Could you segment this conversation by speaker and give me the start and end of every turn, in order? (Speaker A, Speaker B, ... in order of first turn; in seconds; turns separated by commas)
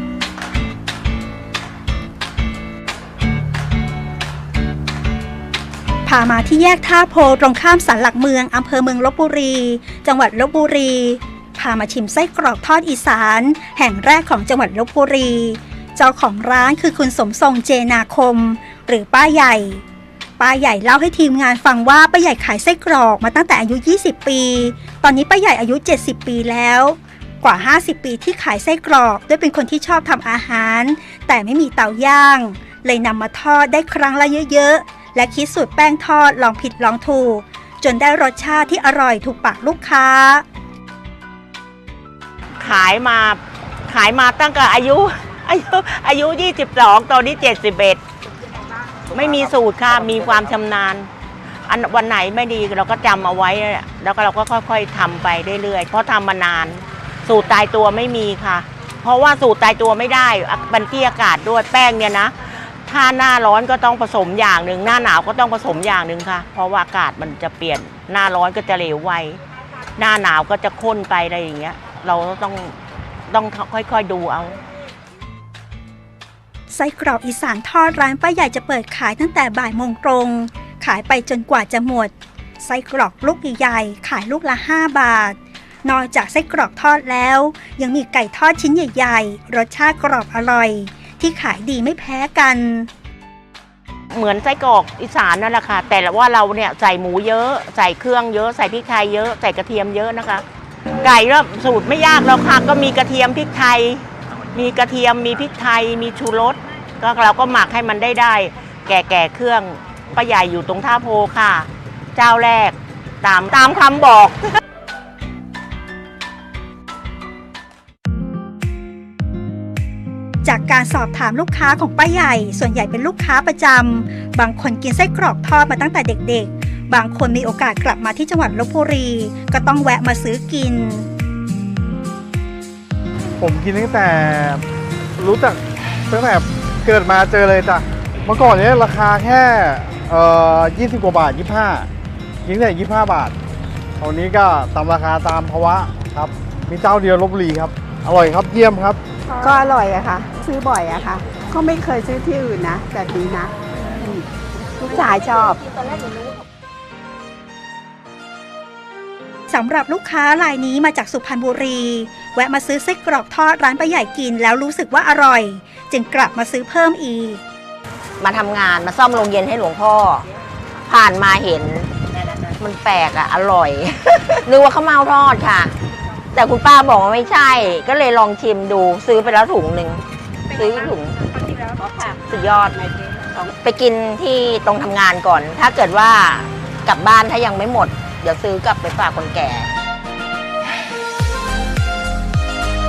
Speaker A: 6.0-19.8, Speaker A: 20.4-40.4, Speaker B: 42.6-48.0, Speaker B: 49.1-51.1, Speaker B: 51.7-62.3, Speaker B: 62.9-69.4, Speaker B: 70.0-72.8, Speaker B: 73.3-74.6, Speaker A: 76.7-92.9, Speaker B: 94.1-100.4, Speaker B: 101.0-114.5, Speaker A: 120.4-131.1, Speaker C: 133.4-134.6, Speaker C: 135.2-141.9, Speaker C: 142.4-143.3, Speaker C: 144.0-149.0, Speaker D: 149.4-154.3, Speaker D: 154.8-155.6, Speaker A: 159.5-167.4, Speaker E: 168.2-170.2, Speaker E: 170.9-171.9, Speaker E: 172.6-175.7, Speaker E: 176.3-182.9, Speaker E: 183.4-189.7